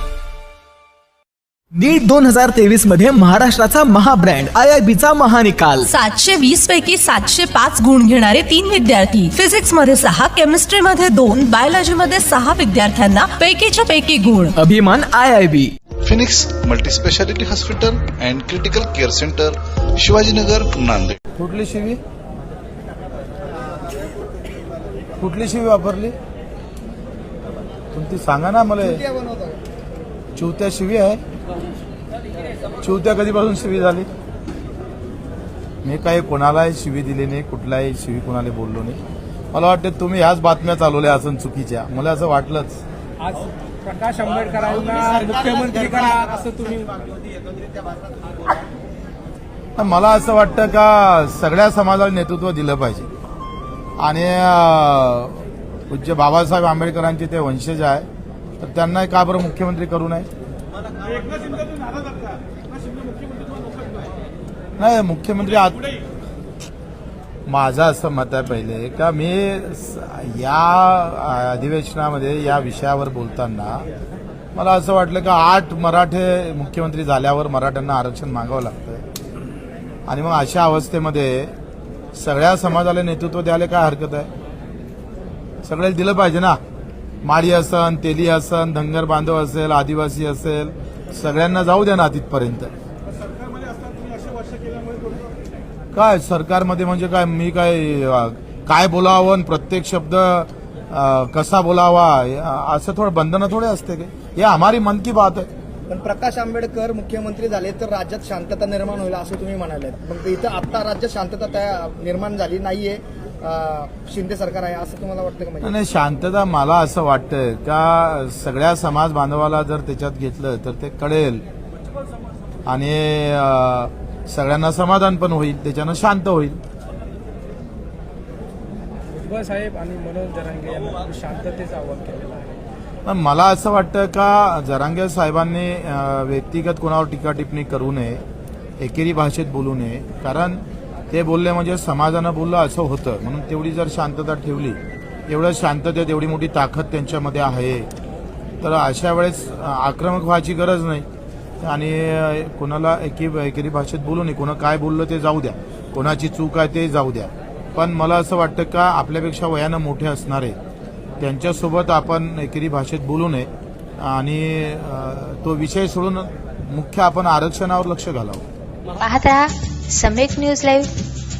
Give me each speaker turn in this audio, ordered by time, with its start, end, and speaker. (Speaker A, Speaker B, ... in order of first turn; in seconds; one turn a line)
Speaker A: 1.8-5.9
Speaker B: 5.8-14.5
Speaker A: 14.6-15.7
Speaker C: 16.0-21.1
Speaker D: 21.4-22.0
Speaker D: 25.2-26.1
Speaker D: 27.9-29.0
Speaker E: 28.8-29.6
Speaker D: 30.4-31.2
Speaker D: 32.8-34.1
Speaker D: 35.8-39.0
Speaker D: 39.5-42.8
Speaker F: 43.2-47.3
Speaker D: 49.8-53.1
Speaker D: 54.0-58.0
Speaker D: 58.6-60.3
Speaker D: 64.8-65.8
Speaker D: 67.5-73.8
Speaker D: 74.5-79.0
Speaker D: 80.1-81.5
Speaker D: 82.1-84.3
Speaker D: 85.6-86.6
Speaker D: 87.2-92.7
Speaker D: 95.9-105.5
Speaker E: 105.9-115.7
Speaker D: 115.6-121.4
Speaker D: 122.7-126.6
Speaker F: 129.1-132.5
Speaker D: 133.1-138.2
Speaker D: 138.8-147.9
Speaker D: 148.6-151.1
Speaker D: 151.6-160.6
Speaker D: 161.2-163.5
Speaker D: 164.0-168.4
Speaker G: 169.0-170.9